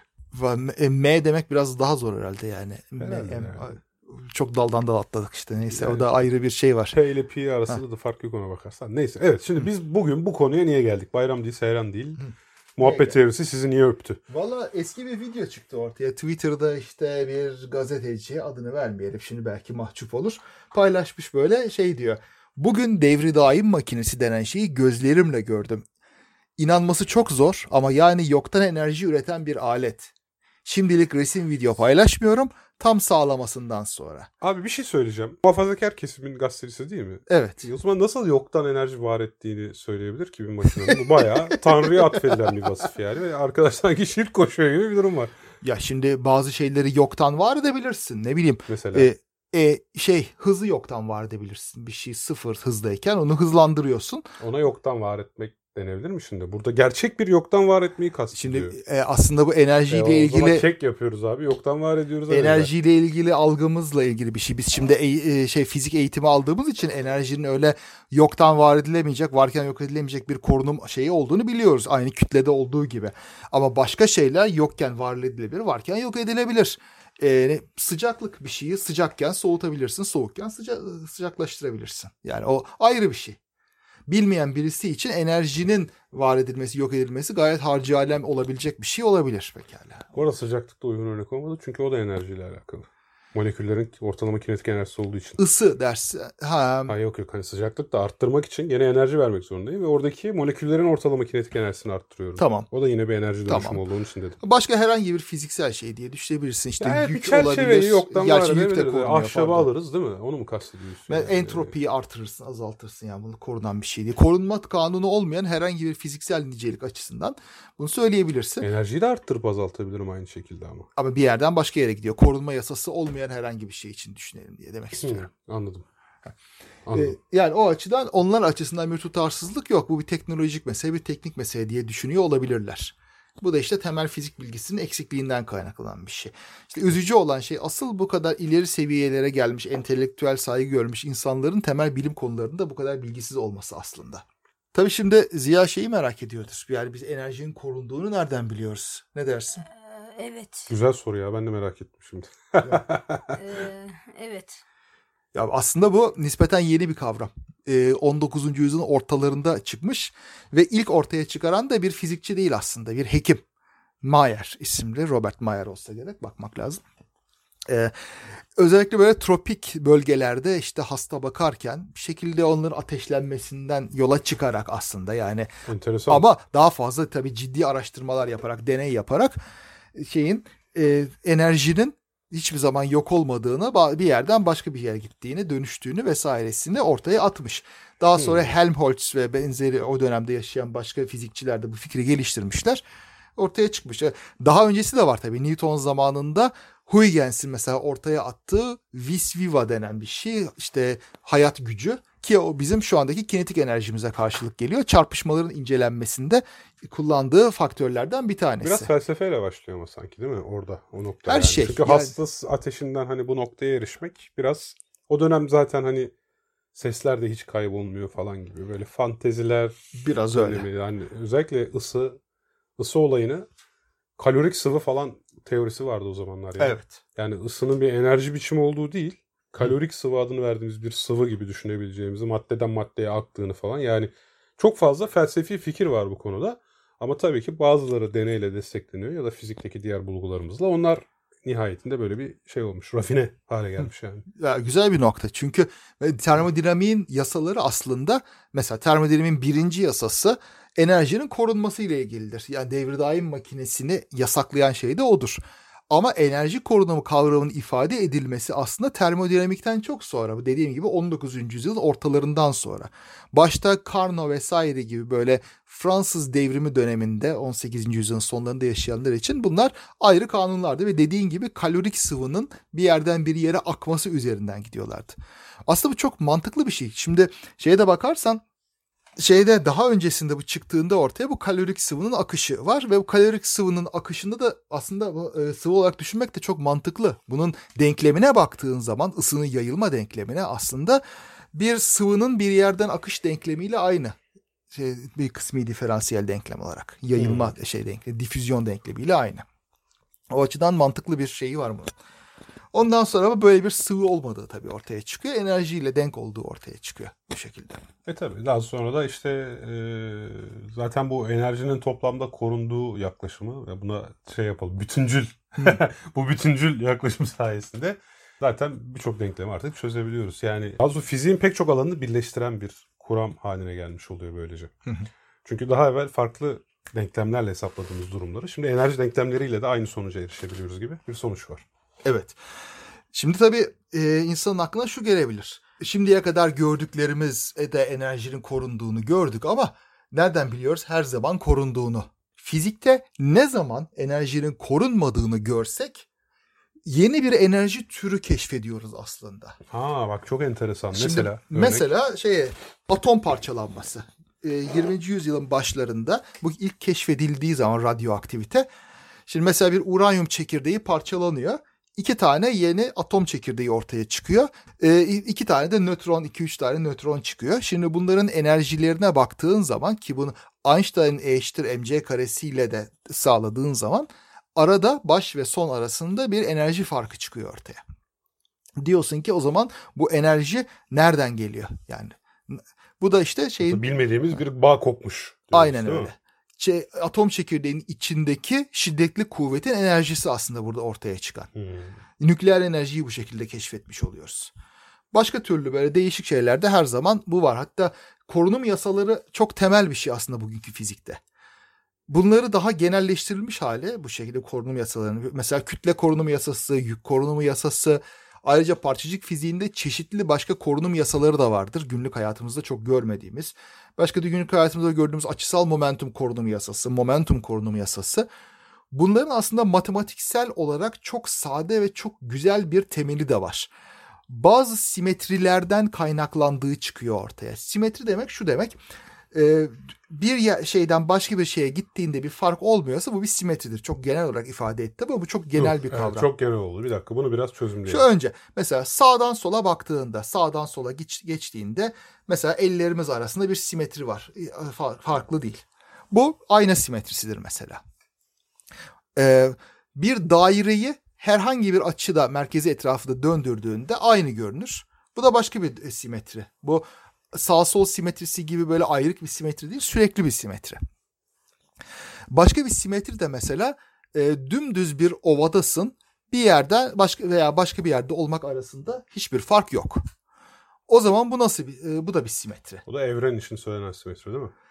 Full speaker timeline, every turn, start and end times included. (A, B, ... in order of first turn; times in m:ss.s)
0:00.3-0:07.0 A
0:03.0-0:03.7 B
0:05.7-0:06.2 B
0:06.9-0:12.2 B
0:12.2-0:13.2 A
0:12.8-0:14.2 B
0:14.3-0:25.8 A
0:26.6-0:30.1 A
0:30.6-0:34.3 A
0:34.4-0:45.3 B
0:37.3-0:37.6 A
0:41.5-0:42.4 A
0:45.6-0:54.2 A
0:48.7-0:49.1 B
0:54.4-0:58.8 B
0:58.3-1:00.6 A
0:59.9-1:02.7 B
1:02.3-1:23.4 A
1:24.1-1:30.1 A
1:30.1-1:35.4 B
1:35.4-1:36.9 A
1:36.9-1:44.4 B
1:42.4-1:42.7 A
1:43.5-1:43.8 A
1:44.4-1:49.7 A
1:46.8-1:51.7 B
1:51.1-1:58.7 A
1:58.6-2:00.9 B
2:01.0-2:05.3 A
2:05.0-2:05.9 B
2:06.9-2:07.1 B
2:06.9-2:29.6 A
2:29.7-2:30.7 C
2:30.7-2:33.4 B
2:32.6-2:32.9 A
2:33.3-2:34.6 C
2:35.3-2:43.4 A
2:44.0-2:46.8 A
2:47.7-2:47.9 A
2:48.6-2:55.5 A
2:55.7-2:56.2 B
2:56.1-2:59.4 A
2:59.9-3:12.8 A
3:08.2-3:08.5 B
3:13.4-3:28.9 A
3:28.6-3:36.1 B
3:31.3-3:32.2 A
3:36.7-3:42.2 B
3:40.0-3:40.7 A
3:42.8-3:43.5 B
3:44.2-4:04.3 B
3:46.6-3:47.0 A
4:04.4-4:38.4 A
4:39.2-4:51.0 A
4:51.5-4:54.2 A
4:54.7-4:59.4 A
4:57.1-4:57.5 B
5:00.3-5:01.9 A
5:02.7-5:07.8 A
5:08.1-5:24.7 B
5:25.4-5:31.6 B
5:32.0-5:32.4 A
5:33.1-5:46.1 A
5:46.8-5:49.6 A
5:49.7-5:51.9 B
5:50.9-5:58.7 A
5:59.3-6:17.8 A
6:18.8-6:23.8 A
6:23.6-6:26.1 B
6:25.5-6:31.5 A
6:31.6-6:32.0 B
6:32.2-6:34.5 A
6:35.1-6:41.2 A
6:42.1-6:58.3 A
6:58.9-7:03.7 A
7:04.3-7:08.8 A
7:09.3-7:16.3 A
7:15.6-7:18.1 B
7:17.8-7:27.8 A
7:29.2-7:40.8 A
7:42.3-7:50.0 A
7:50.9-7:52.8 A
7:52.8-7:54.5 B